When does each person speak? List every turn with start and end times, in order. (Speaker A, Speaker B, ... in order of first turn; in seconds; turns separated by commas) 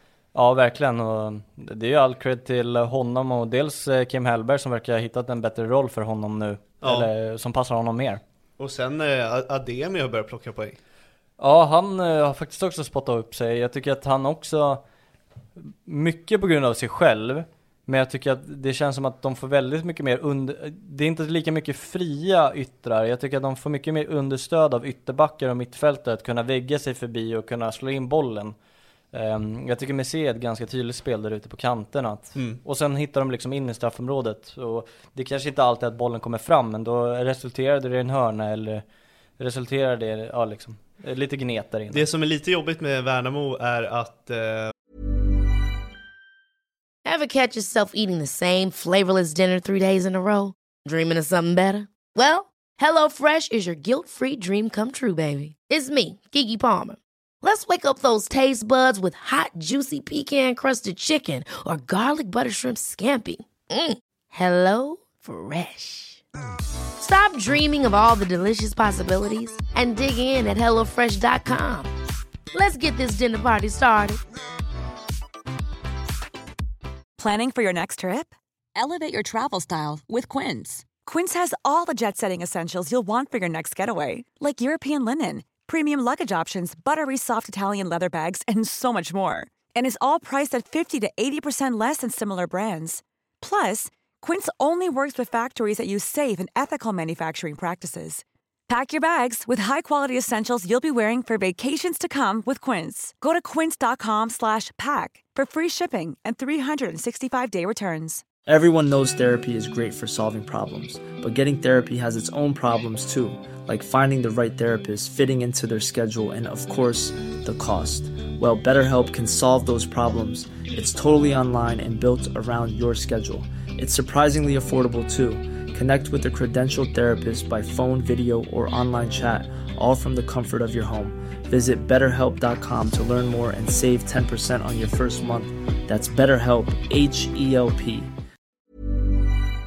Speaker A: 0.3-8.2, Speaker B: 6.8-7.1, Speaker B: 8.6-10.8, Speaker A: 11.4-14.8, Speaker A: 15.8-28.5, Speaker A: 29.1-38.8, Speaker B: 32.3-32.6, Speaker A: 39.4-42.0, Speaker B: 41.9-44.7, Speaker C: 47.0-66.2, Speaker C: 67.0-71.9, Speaker C: 72.5-74.2, Speaker D: 77.2-108.2, Speaker E: 108.5-138.1